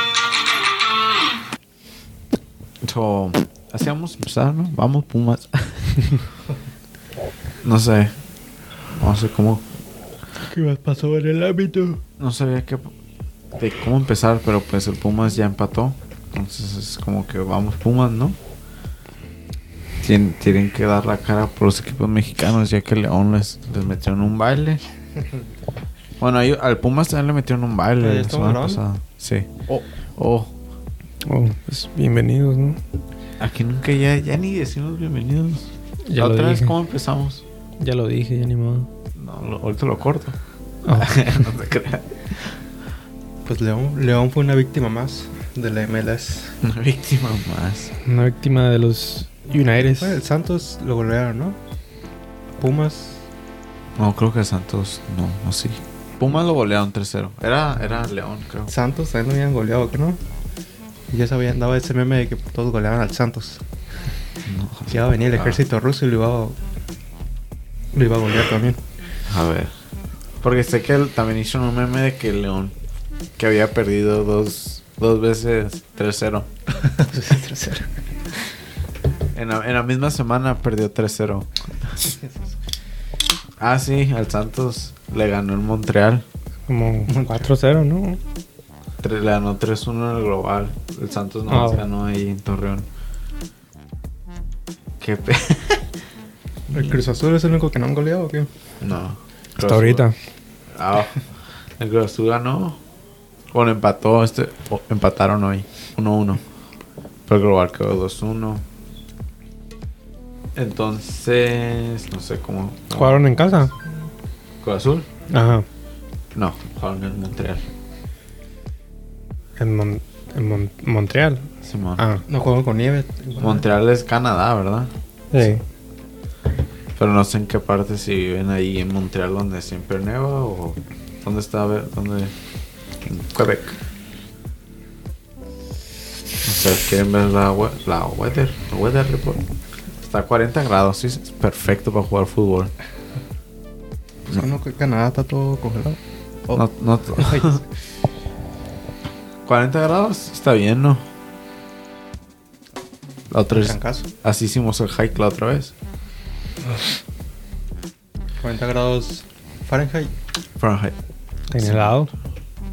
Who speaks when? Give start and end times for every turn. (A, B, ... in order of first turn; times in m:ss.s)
0:02.8-0:06.0 A
0:07.6-0:08.1 A
0:08.9-0:09.6 A
0:10.5-0:12.0 B
0:12.2-0:12.9 A
0:13.6-0:18.4 A
0:20.0-0:24.8 A
0:26.2-0:30.5 A
0:28.0-0:28.8 B
0:31.2-0:32.8 C
0:33.4-0:37.4 A
0:36.1-0:36.8 C
0:37.8-0:38.9 C
0:39.2-0:40.4 A
0:40.8-0:41.3 C
0:40.9-0:42.4 A
0:43.4-0:46.6 B
0:46.6-0:47.9 A
0:48.0-0:50.2 C
0:49.8-0:51.6 B
0:52.6-0:53.2 B
0:54.0-0:58.7 A
0:58.7-1:00.2 B
1:01.1-1:03.6 B
1:04.4-1:05.6 A
1:04.9-1:06.6 B
1:08.0-1:08.8 B
1:09.3-1:09.7 A
1:10.4-1:12.8 A
1:13.4-1:16.5 A
1:16.8-1:17.9 B
1:19.3-1:21.5 A
1:23.6-1:26.2 A
1:26.7-1:28.2 C
1:27.1-1:27.4 B
1:29.0-1:32.9 A
1:31.5-1:31.8 C
1:35.0-1:35.9 A
1:36.7-1:38.5 B
1:36.7-1:37.0 A
1:38.8-1:40.0 A
1:39.6-1:40.2 C
1:40.7-1:41.2 A
1:41.8-1:42.8 A
1:43.5-1:46.4 A
1:47.3-1:48.6 A
1:50.6-1:53.4 A
1:53.0-1:53.7 C
1:54.6-1:55.1 A
1:55.3-1:55.6 C
1:56.3-1:57.6 A
1:59.6-2:02.2 C
2:01.6-2:02.0 A
2:02.3-2:03.6 B
2:03.4-2:04.9 A
2:05.3-2:05.6 C
2:07.0-2:12.3 A
2:13.0-2:13.8 A
2:16.4-2:19.4 A
2:20.0-2:22.7 A
2:24.3-2:26.6 B
2:26.5-2:27.6 A
2:27.2-2:27.7 B
2:29.4-2:31.1 A
2:33.3-2:35.7 A
2:33.5-2:34.1 B
2:38.4-2:40.1 B
2:40.6-2:40.9 A
2:41.5-2:42.1 C
2:41.6-2:41.9 A